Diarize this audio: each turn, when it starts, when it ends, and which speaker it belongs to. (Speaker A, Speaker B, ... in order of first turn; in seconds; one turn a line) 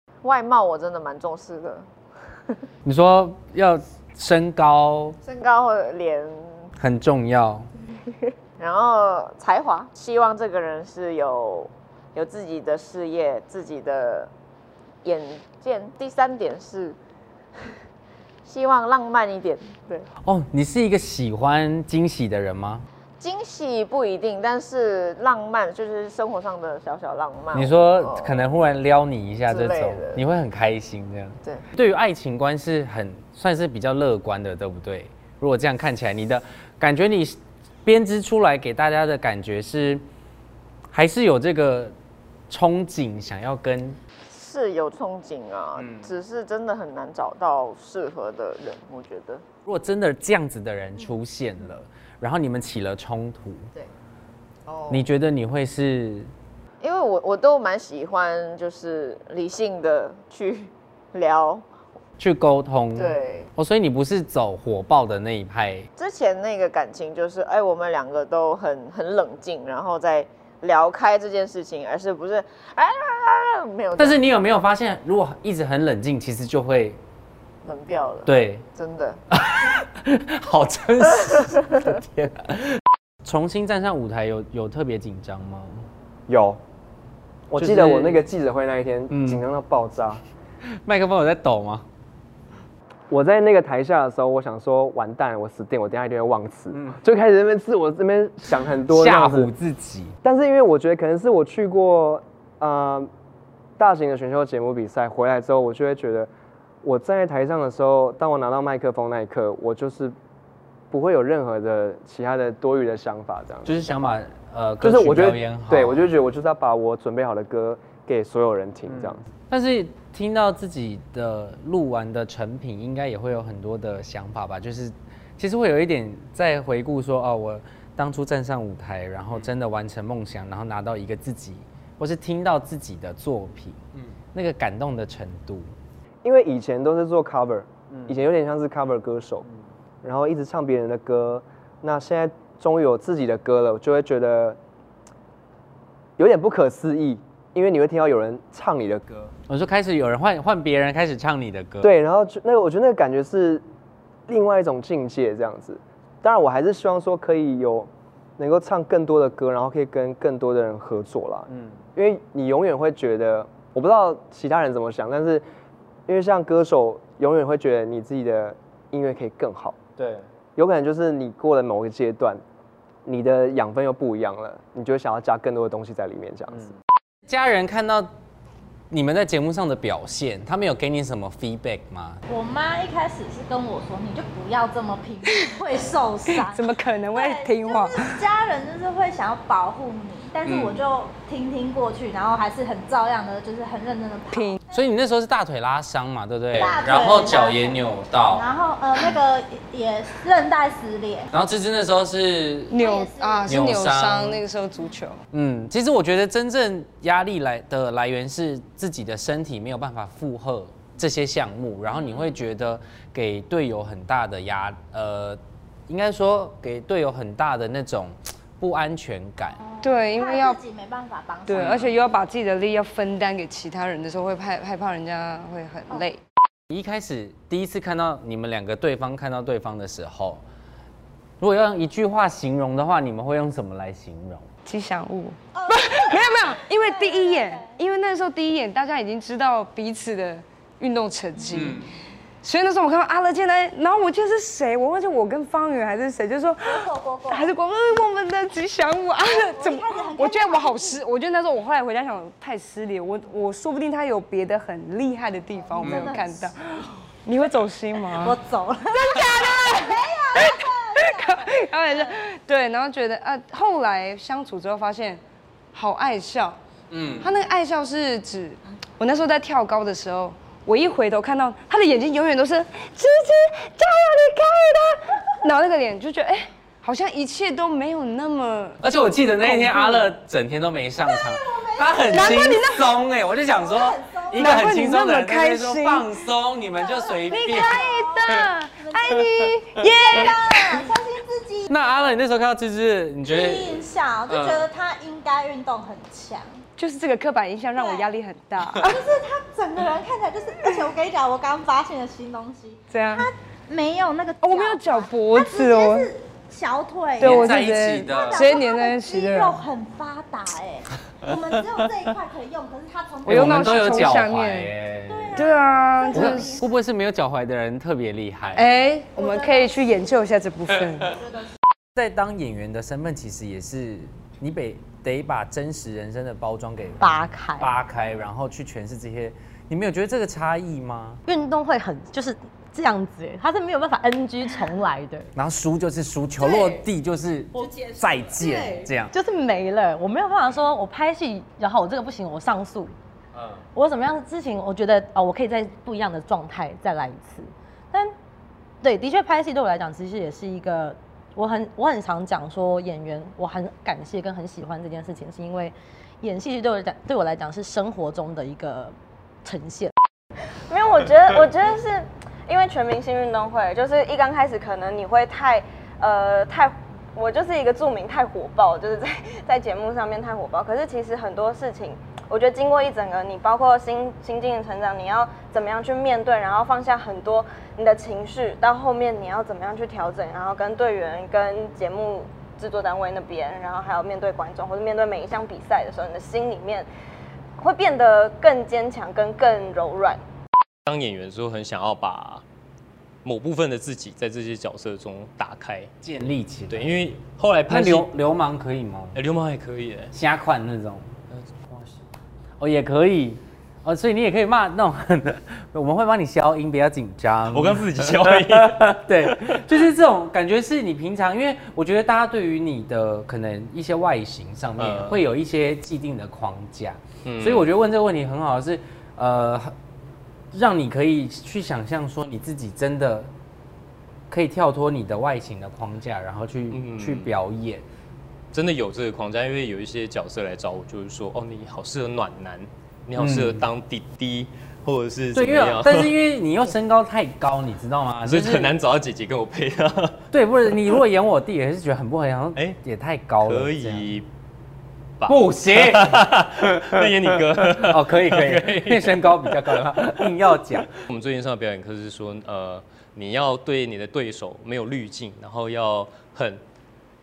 Speaker A: 0.2-1.9
Speaker B: 2.8-5.2
Speaker A: 5.2-6.7
Speaker B: 6.8-7.7
Speaker A: 8.6-14.3
Speaker A: 15.0-16.9
Speaker A: 18.4-20.1
Speaker B: 20.2-22.9
Speaker A: 23.2-28.5
Speaker B: 27.5-40.0
Speaker A: 29.5-30.2
Speaker B: 40.9-41.9
Speaker B: 42.5-44.0
Speaker A: 44.3-49.4
Speaker B: 49.6-53.7
Speaker A: 54.6-55.0
Speaker B: 54.9-56.3
Speaker A: 56.8-61.6
Speaker B: 62.2-65.9
Speaker A: 62.9-63.5
Speaker A: 66.0-74.2
Speaker B: 74.0-77.0
Speaker A: 77.6-79.2
Speaker B: 78.2-78.6
Speaker B: 79.3-85.8
Speaker C: 86.3-86.6
Speaker C: 87.5-90.2
Speaker B: 87.6-88.2
Speaker B: 89.1-89.4
Speaker B: 90.8-91.8
Speaker C: 93.1-99.5
Speaker B: 98.9-100.2
Speaker C: 100.2-103.1
Speaker C: 103.8-106.3
Speaker C: 106.8-110.1
Speaker C: 110.9-114.1
Speaker B: 113.7-116.0
Speaker C: 114.8-119.2
Speaker B: 119.1-133.8
Speaker B: 134.3-135.7
Speaker C: 136.2-139.5
Speaker C: 140.0-144.6
Speaker C: 146.2-149.3
Speaker B: 149.5-151.9
Speaker C: 151.8-153.6
Speaker C: 154.3-165.4
Speaker C: 166.1-169.8
Speaker C: 170.6-172.4
Speaker C: 173.0-176.7
Speaker B: 177.3-178.1
Speaker B: 178.9-182.2
Speaker D: 182.3-194.5
Speaker E: 185.2-185.6
Speaker E: 186.2-188.3
Speaker B: 190.4-190.8
Speaker E: 194.3-194.6
Speaker B: 194.7-198.5
Speaker D: 196.5-197.8
Speaker D: 198.3-201.3
Speaker B: 201.3-202.8
Speaker E: 202.7-205.2
Speaker D: 202.8-203.6
Speaker B: 203.4-204.4
Speaker B: 205.3-219.6
Speaker D: 219.6-221.7
Speaker E: 219.8-220.6
Speaker E: 221.4-226.2
Speaker F: 221.6-221.9
Speaker B: 226.7-230.4
Speaker B: 231.4-234.5
Speaker E: 234.7-241.9
Speaker D: 235.5-237.8
Speaker B: 241.5-241.8
Speaker E: 242.4-258.4
Speaker D: 246.7-247.5
Speaker D: 249.2-251.0
Speaker D: 255.6-256.5
Speaker B: 255.8-256.1
Speaker D: 258.1-262.1
Speaker E: 258.9-265.2
Speaker E: 265.7-266.6
Speaker B: 266.9-267.3
Speaker E: 267.2-278.8
Speaker B: 278.8-288.5
Speaker E: 279.4-280.1
Speaker D: 281.0-282.6
Speaker E: 282.1-283.0
Speaker D: 283.3-284.7
Speaker E: 284.3-286.1
Speaker D: 286.7-289.2
Speaker E: 287.3-290.9
Speaker D: 289.9-292.1
Speaker B: 291.7-294.6
Speaker D: 293.2-296.6
Speaker E: 296.8-299.1
Speaker D: 297.7-298.1
Speaker D: 298.8-314.3
Speaker E: 300.6-300.9
Speaker E: 302.9-303.3
Speaker E: 304.4-306.1
Speaker E: 307.2-309.7
Speaker B: 307.2-308.6
Speaker B: 311.3-311.6
Speaker E: 313.2-314.7
Speaker B: 313.3-315.5
Speaker D: 315.1-316.7
Speaker E: 315.3-316.6
Speaker B: 316.1-318.7
Speaker E: 318.5-321.1
Speaker D: 319.1-320.4
Speaker B: 321.9-331.2
Speaker G: 327.0-327.7
Speaker G: 331.2-335.3
Speaker B: 335.3-339.1
Speaker D: 337.7-338.7
Speaker G: 339.1-342.9
Speaker G: 343.7-348.1
Speaker G: 348.8-359.9
Speaker H: 360.7-386.9
Speaker H: 387.6-390.2
Speaker F: 390.9-392.4
Speaker F: 393.2-395.9
Speaker B: 396.0-396.9
Speaker F: 396.7-398.1
Speaker B: 397.7-399.2
Speaker F: 399.1-400.1
Speaker B: 400.1-401.1
Speaker F: 401.3-402.0
Speaker B: 402.6-419.7
Speaker F: 407.5-409.6
Speaker F: 414.8-415.2
Speaker F: 417.2-417.7
Speaker B: 420.5-423.3
Speaker B: 424.3-427.8
Speaker F: 426.7-427.3
Speaker F: 428.5-436.2
Speaker B: 433.2-433.6
Speaker B: 435.3-438.7
Speaker F: 438.2-440.2
Speaker B: 440.3-444.1
Speaker F: 443.4-444.3
Speaker F: 445.2-456.6
Speaker B: 445.3-451.0